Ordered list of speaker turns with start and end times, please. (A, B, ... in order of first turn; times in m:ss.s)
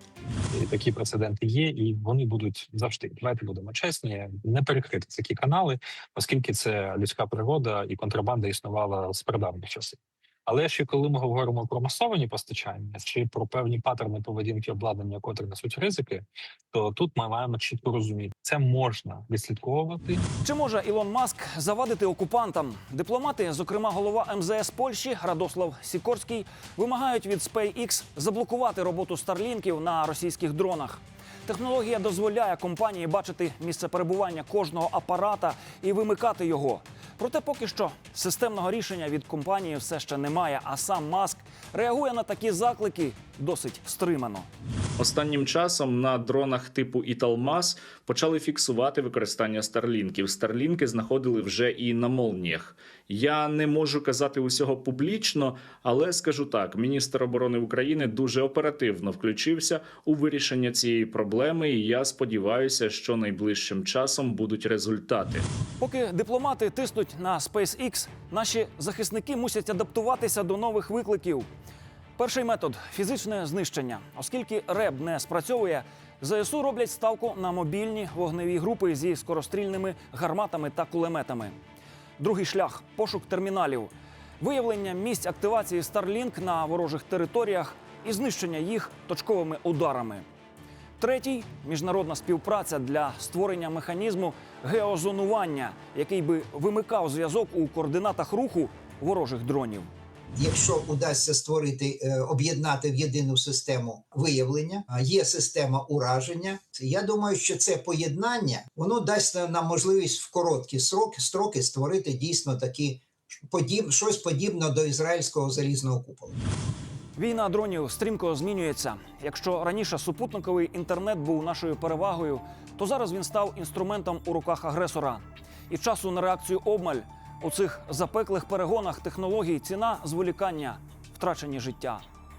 0:00.5-0:20.2 A
0:20.4-0:44.5 B
0:45.0-1:05.4 C
1:05.8-1:11.5 B
1:12.2-1:21.6 B
1:22.2-1:30.2 B
1:31.0-1:39.9 B
1:40.4-1:56.4 D
1:57.2-2:12.0 B